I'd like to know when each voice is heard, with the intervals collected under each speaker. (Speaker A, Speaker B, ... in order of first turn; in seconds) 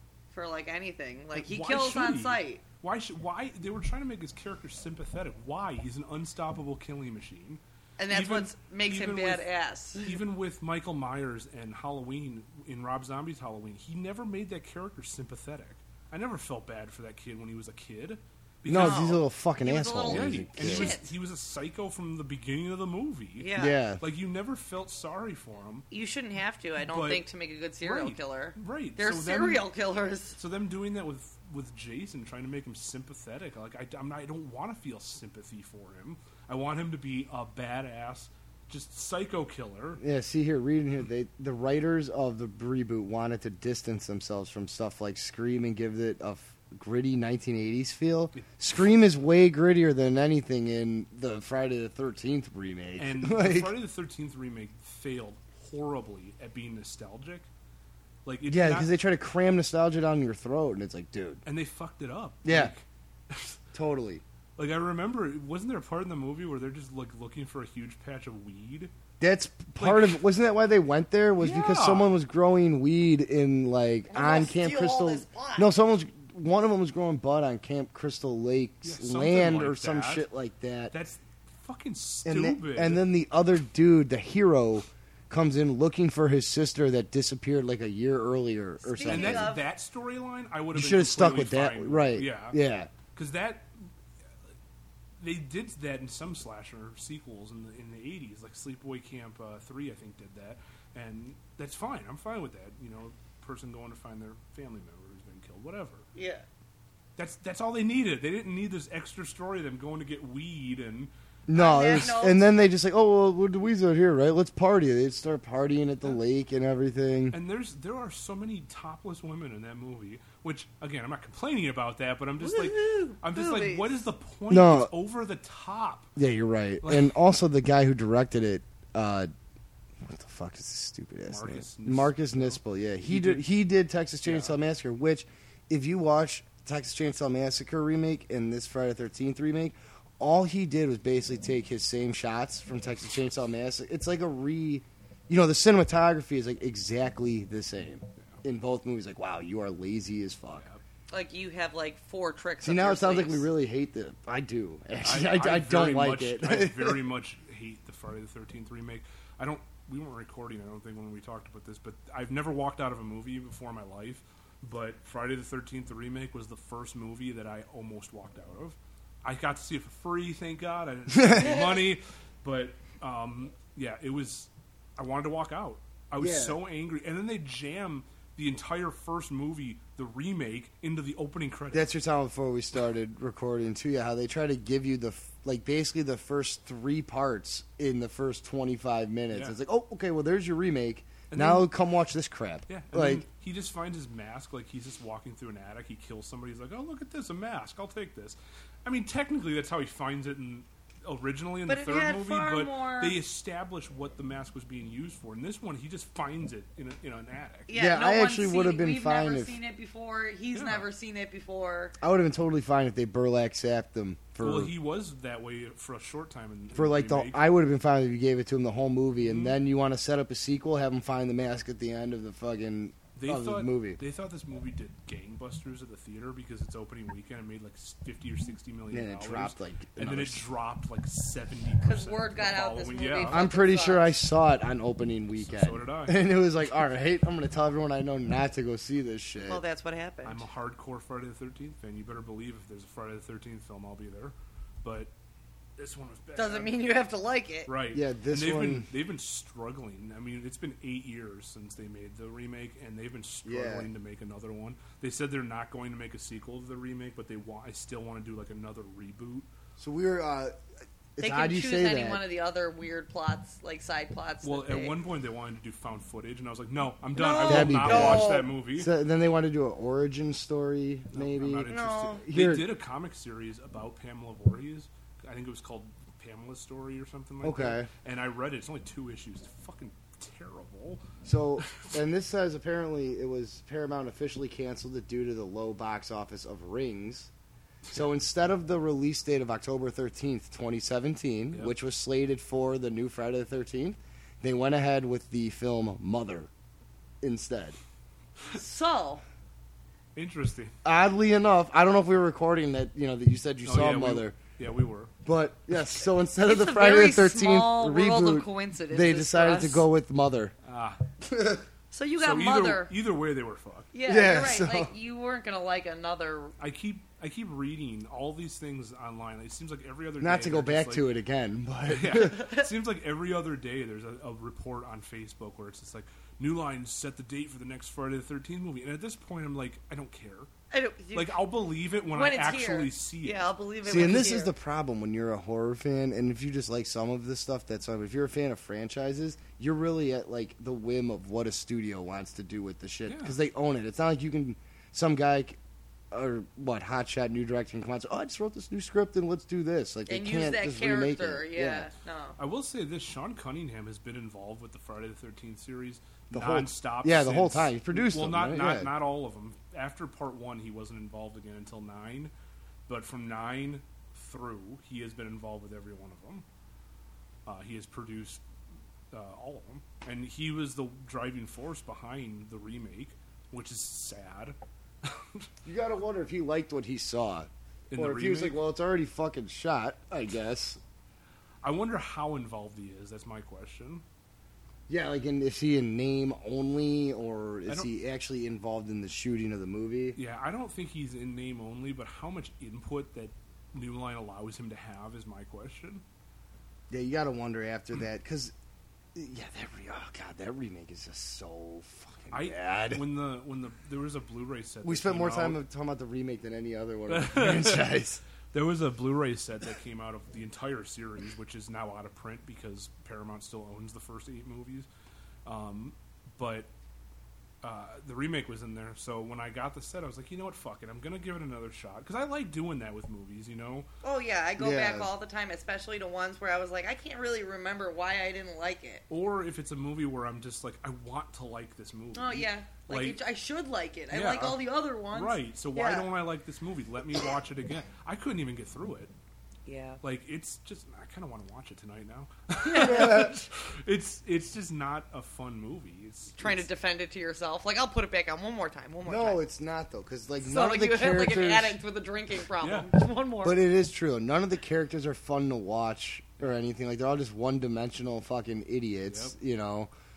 Speaker A: 0.3-2.6, 8.0-10.1, 18.7-21.1, 23.4-23.8, 25.9-30.4, 74.1-75.7, 88.8-89.6, 106.1-106.4, 111.5-112.4, 122.4-123.9, 151.1-153.4, 201.7-203.2, 207.7-211.9, 231.8-234.1, 239.4-240.4, 246.3-247.7, 261.2-264.9, 267.1-268.5, 271.7-272.2, 298.5-299.2, 306.4-309.8, 311.9-312.9, 313.9-316.5, 330.7-331.4, 332.1-334.5, 350.1-352.4, 424.0-429.0, 432.1-436.1, 439.6-440.0, 442.6-443.1, 446.4-449.4, 450.4-453.6
Speaker B: 1.3-19.2, 20.0-25.9, 26.8-27.2, 27.8-29.7, 30.4-40.0, 48.3-48.7, 53.0-57.5, 58.2-58.9, 61.4-63.6, 64.6-68.9, 69.8-70.2, 71.4-72.1, 78.8-80.2, 80.9-83.0, 89.1-92.6, 93.1-93.8, 95.2-106.0, 107.2-111.1, 117.3-126.1, 126.8-127.1, 131.3-133.4, 134.2-134.5, 150.6-150.8, 155.0-181.9, 189.3-189.6, 191.3-191.7, 192.7-207.7, 210.5-210.9, 214.4-217.4, 219.2-219.6, 223.2-233.4, 235.3-236.3, 240.2-245.1, 245.8-246.7, 247.7-259.5, 264.4-268.9, 271.1-281.0, 281.6-281.9, 300.1-300.7, 303.6-305.1, 310.6-311.0, 312.2-313.9, 316.6-321.1, 321.9-330.5, 331.1-334.1, 343.1-343.4, 352.4-362.3, 362.9-366.4, 367.4-368.4, 369.1-375.5, 377.9-378.6, 381.6-384.0, 390.1-396.0, 402.3-405.6, 407.1-407.9, 408.5-414.9, 415.4-416.7, 417.6-423.9, 429.1-433.2, 434.1-439.1, 440.0-446.7, 452.6-452.9, 459.1-459.3
Speaker C: 18.6-20.9, 23.6-24.0, 40.0-53.8, 58.5-61.4, 62.4-62.7, 63.7-64.2, 69.2-80.9, 82.2-89.6, 90.7-92.9, 111.5-117.3, 124.5-124.9, 126.2-129.3, 130.0-150.6, 152.6-157.0, 176.2-176.6, 181.7-193.2, 207.7-209.6, 212.0-214.7, 216.7-224.0, 228.9-230.4, 233.3-239.6, 247.9-248.9, 253.4-253.9, 259.8-260.6, 261.2-262.2, 267.4-272.7, 277.4-277.9, 281.2-287.3, 287.9-296.5, 297.2-297.8, 300.8-304.3, 305.2-310.5, 311.2-311.6, 314.1-314.9, 320.2-322.4, 333.9-345.6, 346.1-351.9, 356.3-358.9, 375.6-380.8, 384.9-390.2, 396.9-398.5, 399.1-403.0, 404.8-408.2, 424.6-425.1, 442.8-443.4, 449.0-451.8, 453.4-459.9